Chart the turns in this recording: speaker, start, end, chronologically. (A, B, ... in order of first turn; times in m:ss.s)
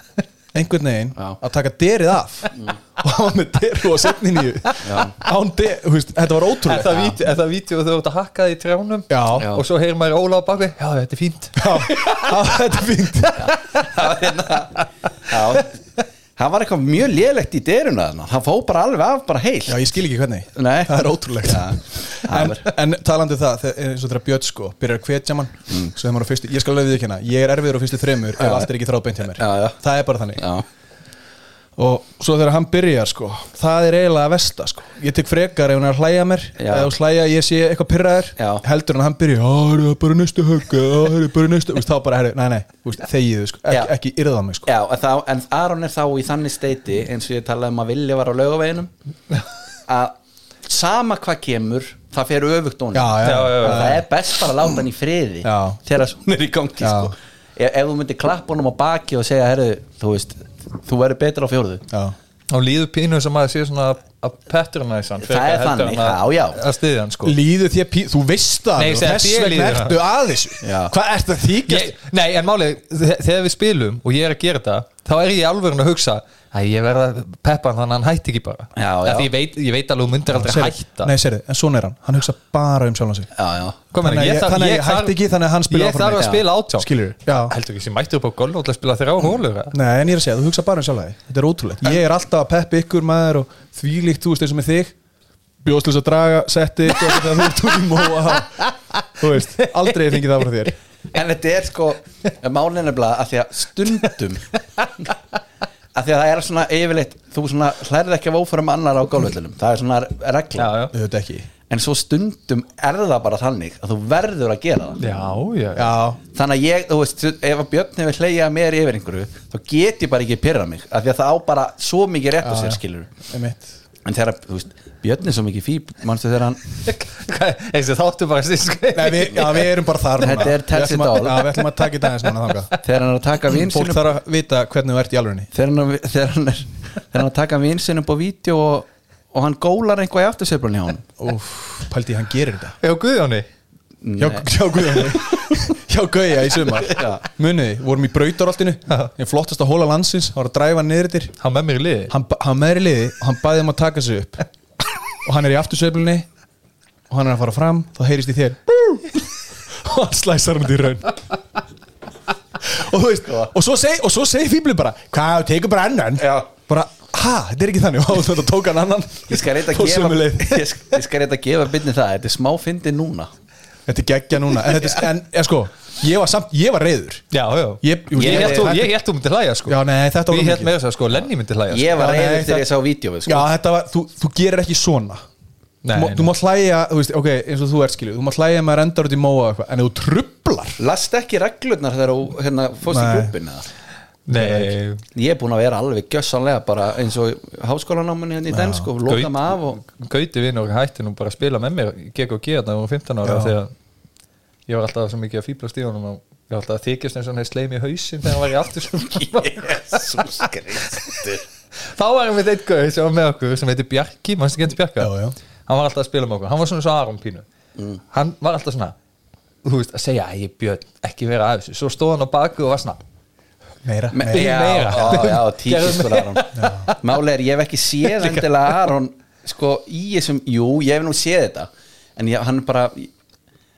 0:00.5-0:07.2 A
0:04.8-0:05.2 B
0:06.6-0:12.6 C
0:09.1-0:09.5 A
0:09.3-0:09.6 B
0:11.6-0:13.5 A
0:13.2-0:14.2 C
0:13.4-0:15.7 B
0:16.4-0:19.9 B
0:19.7-0:30.4 A
0:20.5-0:22.7 B
0:28.4-0:28.7 B
0:29.4-0:29.8 B
0:30.4-0:30.6 B
0:31.8-0:44.7 A
0:36.6-0:36.9 B
0:38.4-0:38.6 B
0:44.6-0:48.9 B
0:49.9-1:01.8 B
0:52.9-0:54.0 A
0:53.2-0:54.0 C
0:55.4-0:55.8 A
0:56.8-0:57.1 A
1:01.9-1:02.1 A
1:02.5-1:07.4 C
1:05.2-1:06.6 B
1:07.2-1:11.9 A
1:08.8-1:10.0 C
1:10.6-1:10.9 B
1:11.6-1:21.1 C
1:18.7-1:19.3 B
1:20.3-1:23.3 A
1:23.3-1:23.8 B
1:23.9-1:25.2 C
1:24.0-1:27.6 A
1:25.7-1:29.8 C
1:29.7-1:34.9 A
1:35.6-1:38.6 A
1:37.0-1:40.2 C
1:39.2-1:40.7 A
1:41.1-1:44.4 B
1:45.9-1:50.7 B
1:50.6-1:50.9 C
1:50.9-1:51.5 A
1:51.7-1:55.0 B
1:55.0-1:55.9 C
1:55.7-1:56.2 A
1:56.3-2:03.1 B
2:02.4-2:03.7 A
2:04.0-2:06.6 B
2:06.8-2:09.7 C
2:08.9-2:12.7 A
2:10.2-2:11.6 B
2:12.8-2:14.0 B
2:13.6-2:15.5 A
2:15.5-2:21.1 B
2:21.2-2:22.8 A
2:22.8-2:23.4 C
2:24.0-2:25.5 B
2:24.2-2:31.4 A
2:26.8-2:27.2 B
2:31.4-2:32.1 C
2:32.1-2:34.4 A
2:35.2-2:36.3 A
2:37.1-2:41.2 A
2:42.6-2:50.8 A
2:46.2-2:46.5 B
2:49.3-2:53.3 B
2:53.9-2:57.3 A
2:57.3-3:02.1 C
2:57.8-2:58.9 A
2:58.1-2:58.8 B
2:59.6-3:00.7 A
3:01.7-3:03.5 B
3:01.9-3:02.7 A
3:03.2-3:05.2 A
3:05.8-3:06.3 C
3:05.9-3:10.8 A
3:10.8-3:13.6 B
3:12.8-3:13.3 A
3:14.3-3:15.0 C
3:14.3-3:14.7 A
3:15.1-3:19.8 B
3:18.5-3:18.9 A
3:19.0-3:23.7 C
3:23.2-3:23.5 A
3:24.7-3:30.5 C
3:29.2-3:31.4 B
3:31.8-3:37.4 C
3:35.0-3:35.3 A
3:38.1-3:38.9 C
3:39.6-3:43.0 C
3:43.8-3:45.3 A
3:44.1-3:53.1 B
3:44.3-3:47.1 C
3:46.5-3:46.9 A
3:48.0-3:48.6 C